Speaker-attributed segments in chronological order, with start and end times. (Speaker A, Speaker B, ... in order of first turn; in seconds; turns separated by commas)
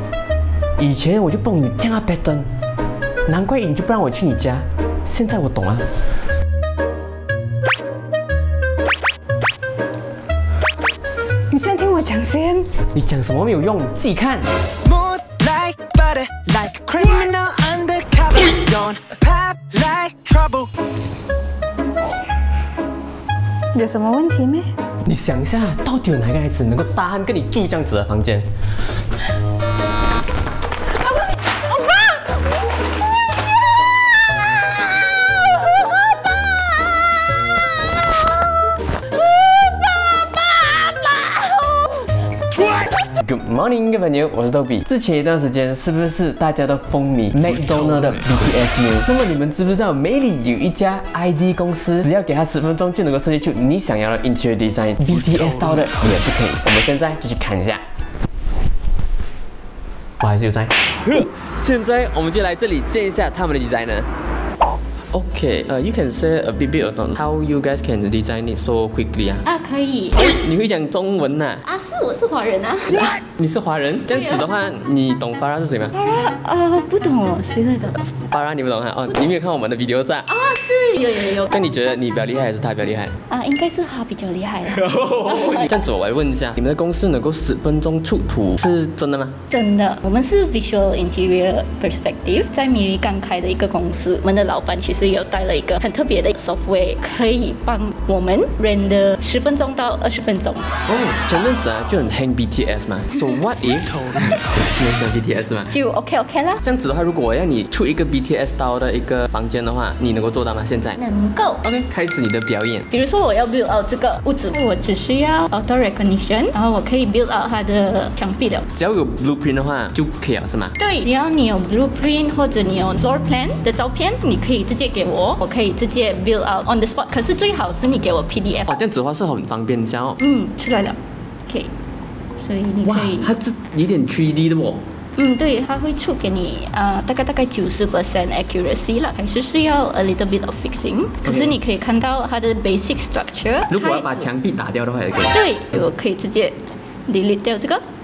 Speaker A: 0.8-2.5, Speaker A: 3.3-5.9, Speaker B: 11.5-12.7, Speaker A: 12.9-14.5, Speaker C: 14.7-20.7, Speaker B: 23.7-24.7, Speaker A: 25.0-28.4, Speaker A: 43.1-57.8, Speaker A: 60.2-64.1, Speaker A: 65.1-69.5, Speaker D: 69.5-70.3, Speaker A: 70.2-71.7, Speaker D: 71.6-73.1, Speaker A: 73.1-76.0, Speaker D: 74.1-74.5, Speaker D: 75.9-78.1, Speaker A: 78.2-80.3, Speaker D: 80.3-81.5, Speaker A: 81.3-83.1, Speaker D: 83.3-85.8, Speaker A: 84.7-89.4, Speaker D: 89.5-100.7, Speaker A: 100.9-105.7, Speaker D: 105.7-106.6, Speaker A: 106.6-111.0, Speaker D: 111.0-111.6, Speaker A: 111.6-112.9, Speaker D: 112.9-118.7, Speaker A: 118.7-120.8, Speaker D: 120.8-128.7, Speaker A: 128.7-130.2, Speaker D: 130.2-131.0, Speaker D: 132.4-133.3, Speaker A: 132.8-134.8, Speaker D: 135.2-144.3, Speaker A: 141.2-141.6, Speaker A: 143.7-145.4, Speaker D: 145.3-147.8